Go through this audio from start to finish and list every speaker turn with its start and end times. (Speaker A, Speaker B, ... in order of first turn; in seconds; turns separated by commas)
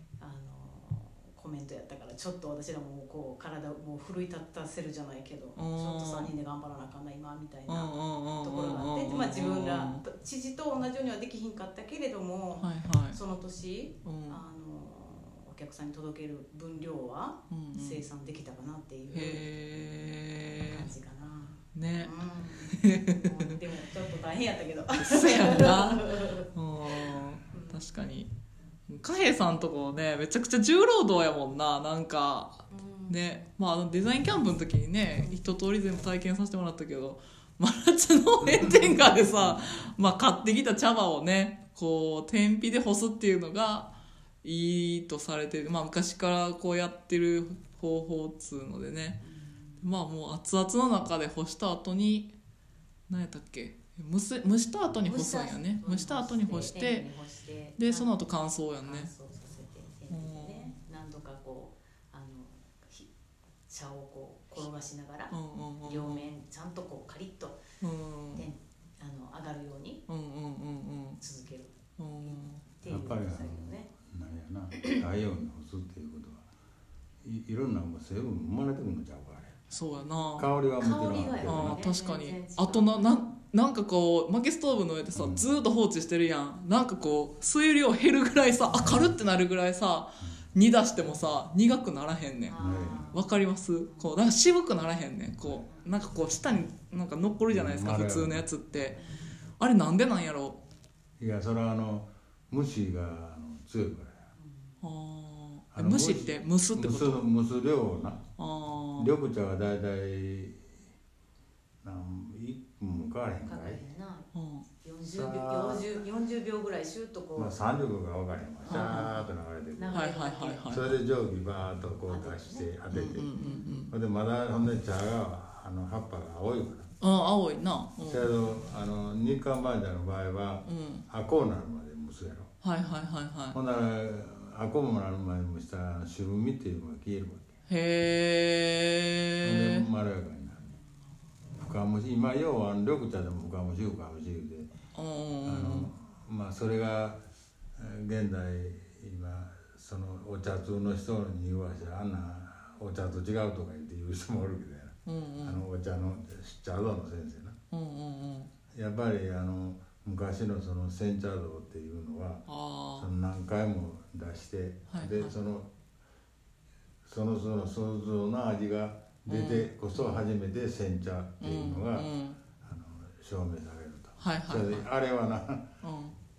Speaker A: 0.2-26.5, Speaker B: 5.6-6.3, Speaker B: 7.7-10.0, Speaker B: 12.6-13.2, Speaker B: 14.1-14.4, Speaker B: 17.5-18.0, Speaker B: 19.1-20.9, Speaker B: 21.7-22.1, Speaker B: 22.7-23.6, Speaker B: 25.0-28.3, Speaker A: 27.5-27.8, Speaker B: 28.9-49.2, Speaker A: 32.7-33.2, Speaker A: 49.2-49.9, Speaker B: 49.8-52.3, Speaker B: 53.1-57.1, Speaker A: 54.9-58.2, Speaker B: 57.8-59.1, Speaker A: 58.8-63.1, Speaker B: 60.1-60.7, Speaker A: 63.7-67.6, Speaker B: 65.3-66.3, Speaker B: 67.8-68.5, Speaker A: 68.4-70.0, Speaker B: 70.1-71.2, Speaker A: 71.2-73.9, Speaker B: 72.0-72.6, Speaker C: 72.9-76.5, Speaker A: 74.8-75.0, Speaker C: 77.2-79.6, Speaker B: 79.7-80.5, Speaker C: 80.4-81.8, Speaker A: 80.8-83.3, Speaker B: 81.5-92.6, Speaker C: 85.1-85.6, Speaker A: 92.5-93.3, Speaker C: 92.6-93.2, Speaker B: 93.1-99.0, Speaker A: 93.9-94.1, Speaker C: 97.5-98.5, Speaker A: 99.0-99.4, Speaker B: 99.6-100.6, Speaker C: 101.2-104.2, Speaker A: 104.4-104.8, Speaker B: 104.8-107.2, Speaker C: 105.7-108.2, Speaker B: 108.4-109.1, Speaker C: 109.0-110.6, Speaker C: 111.8-113.8, Speaker A: 113.4-114.3, Speaker B: 114.3-114.7, Speaker A: 114.8-117.6, Speaker C: 115.0-115.9, Speaker C: 117.4-120.1, Speaker A: 118.7-120.8, Speaker B: 118.7-119.2, Speaker B: 119.9-121.0, Speaker C: 120.7-123.3, Speaker A: 122.0-122.7, Speaker B: 122.9-123.9, Speaker A: 123.3-123.7, Speaker C: 123.9-126.9, Speaker B: 127.0-128.3, Speaker C: 128.0-132.5, Speaker B: 130.7-131.1, Speaker B: 132.6-133.6, Speaker C: 133.5-137.5, Speaker B: 137.7-139.8, Speaker C: 139.4-140.8, Speaker C: 141.6-144.7, Speaker B: 144.9-145.9, Speaker C: 145.4-147.2, Speaker C: 147.8-157.6, Speaker B: 155.1-155.6, Speaker B: 157.7-158.5, Speaker C: 158.7-165.7, Speaker B: 162.5-163.1, Speaker B: 164.9-165.3, Speaker C: 167.1-172.1, Speaker B: 169.3-169.7, Speaker B: 171.4-172.4, Speaker C: 172.6-175.7, Speaker B: 174.2-174.9, Speaker B: 175.8-176.2